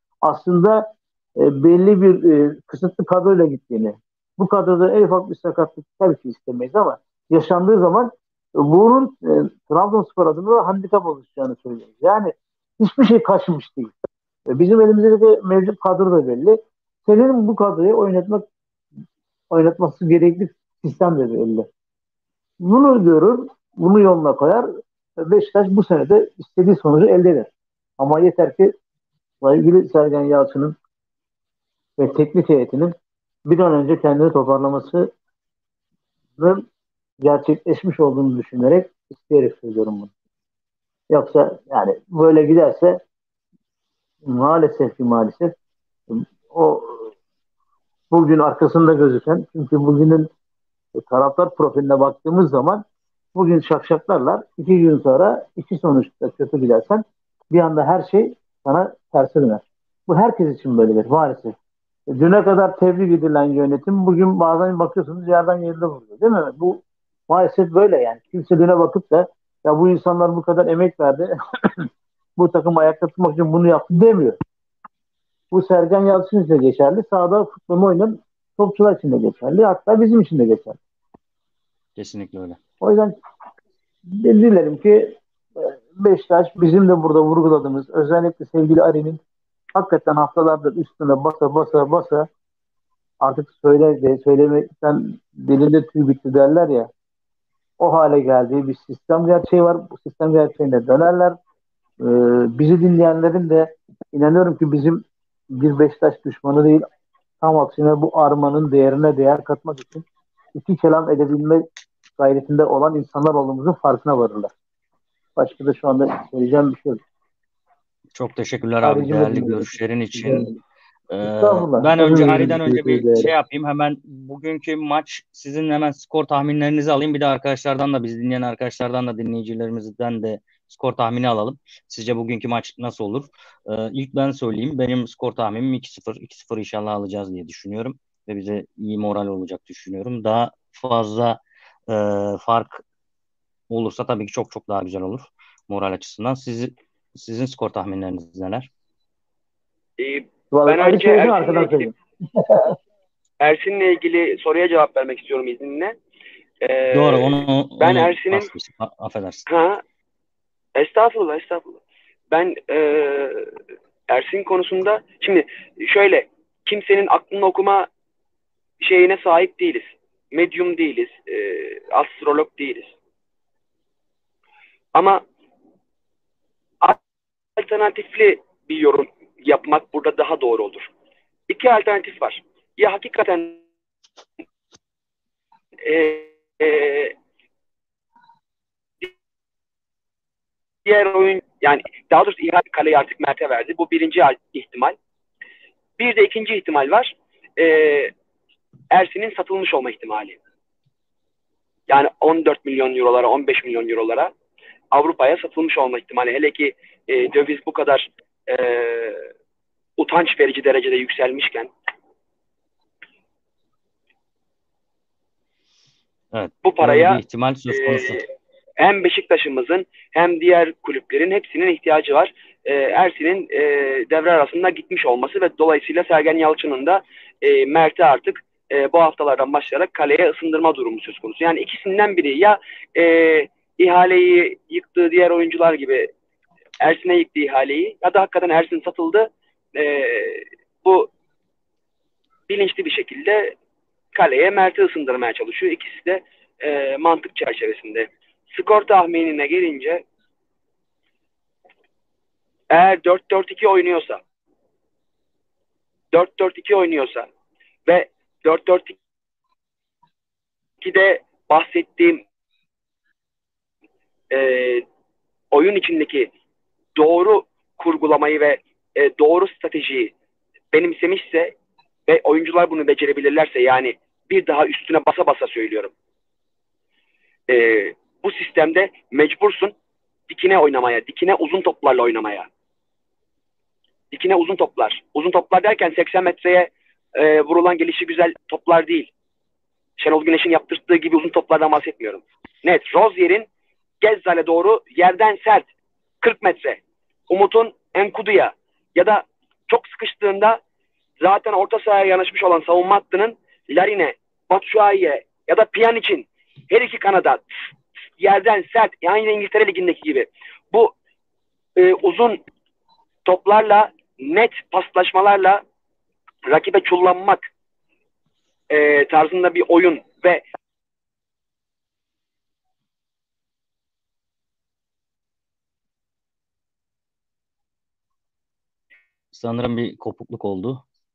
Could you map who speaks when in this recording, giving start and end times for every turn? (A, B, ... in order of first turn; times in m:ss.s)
0:00.2-0:13.9 A
0:14.5-0:18.4 A
0:19.5-0:21.7 A
0:22.6-0:24.7 A
0:25.2-0:28.7 A
0:29.4-0:30.8 A
0:32.0-0:32.9 A
0:33.5-0:35.1 A
0:36.4-0:36.6 A
0:37.2-0:40.1 A
0:41.1-0:43.0 A
0:44.2-0:45.5 A
0:46.1-0:47.1 A
0:48.1-0:50.3 A
0:51.0-1:01.6 A
1:02.1-1:14.4 A
1:15.5-1:20.8 A
1:22.0-1:22.6 B
1:22.8-1:23.2 A
1:24.1-1:29.2 A
1:29.8-1:32.3 A
1:33.2-1:36.9 A
1:37.8-1:41.4 A
1:42.0-1:46.9 A
1:47.4-1:51.6 A
1:52.2-1:54.5 A
1:55.4-1:57.0 A
1:58.2-2:00.5 B
1:58.8-2:00.6 A
2:01.1-2:22.8 B
2:01.2-2:03.3 A
2:23.7-2:28.7 B
2:30.0-2:31.9 C
2:30.5-2:32.8 A
2:33.4-2:36.0 C
2:36.6-2:38.5 C
2:36.9-2:39.5 B
2:39.5-2:39.8 C
2:40.8-2:43.5 C
2:44.1-2:47.9 C
2:48.8-2:53.0 C
2:55.0-2:55.2 C
2:57.6-3:00.9 C
3:01.5-3:03.6 C
3:05.8-3:07.2 C
3:10.8-3:15.0 C
3:16.0-3:18.1 C
3:18.9-3:20.4 C
3:21.9-3:24.3 C
3:24.9-3:29.3 C
3:30.0-3:31.7 C
3:36.3-3:38.2 B
3:36.6-3:37.2 C
3:37.7-3:38.2 C
3:38.8-3:56.1 C
3:56.8-4:01.1 C
4:02.5-4:03.5 C
4:04.1-4:10.0 C
4:12.7-4:14.2 C
4:16.1-4:17.3 C
4:17.9-4:19.0 C
4:20.8-4:22.2 C
4:24.3-4:24.8 C
4:25.5-4:26.3 C
4:27.0-4:30.1 C
4:30.7-4:31.6 C
4:32.1-4:35.9 C
4:37.5-4:39.7 C
4:40.3-4:42.5 C
4:44.1-4:49.1 C
4:50.0-4:53.5 C
4:54.0-4:55.7 C
4:56.2-5:00.6 C
5:01.2-5:07.4 C
5:08.2-5:10.9 C
5:11.8-5:12.4 C
5:13.2-5:15.6 C
5:16.5-5:17.5 C
5:18.7-5:20.4 C
5:29.3-5:30.8 B